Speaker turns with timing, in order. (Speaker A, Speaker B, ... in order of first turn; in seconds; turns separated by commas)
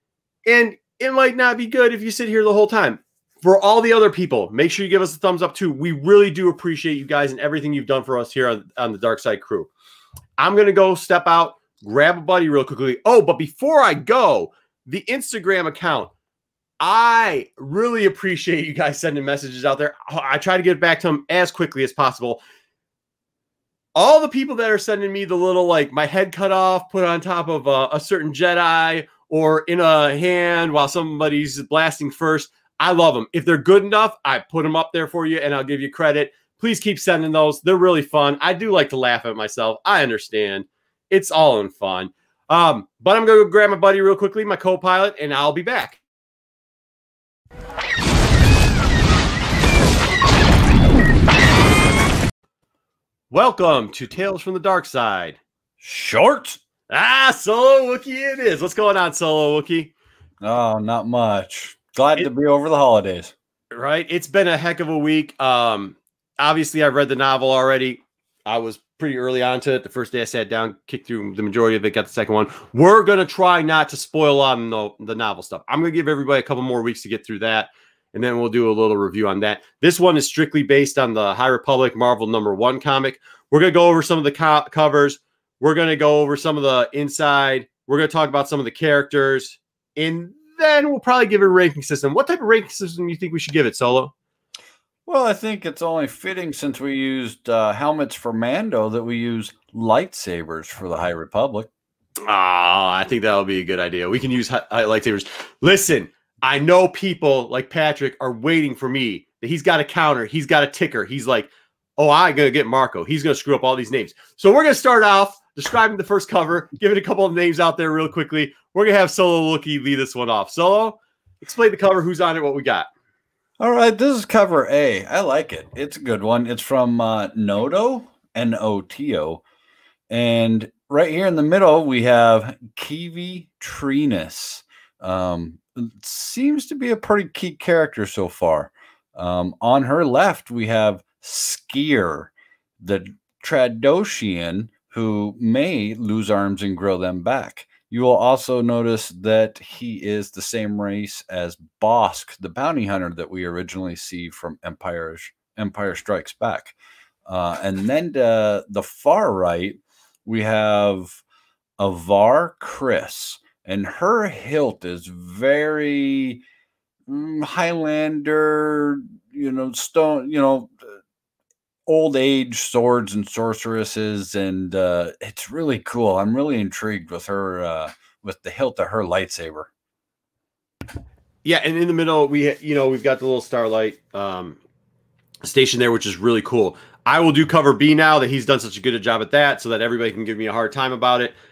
Speaker A: 0.5-9.7, Speaker A: 10.4-16.1, Speaker A: 16.8-22.4, Speaker A: 24.0-46.0, Speaker A: 53.3-55.4, Speaker B: 55.8-56.6, Speaker A: 56.9-59.9, Speaker B: 60.4-63.3, Speaker A: 63.7-94.1, Speaker B: 95.1-101.7, Speaker A: 102.3-122.9, Speaker B: 123.6-129.4, Speaker B: 130.1-156.7, Speaker B: 157.3-161.2, Speaker B: 161.8-166.4, Speaker B: 167.1-170.8, Speaker B: 171.9-179.7, Speaker A: 181.4-184.6, Speaker A: 185.4-191.4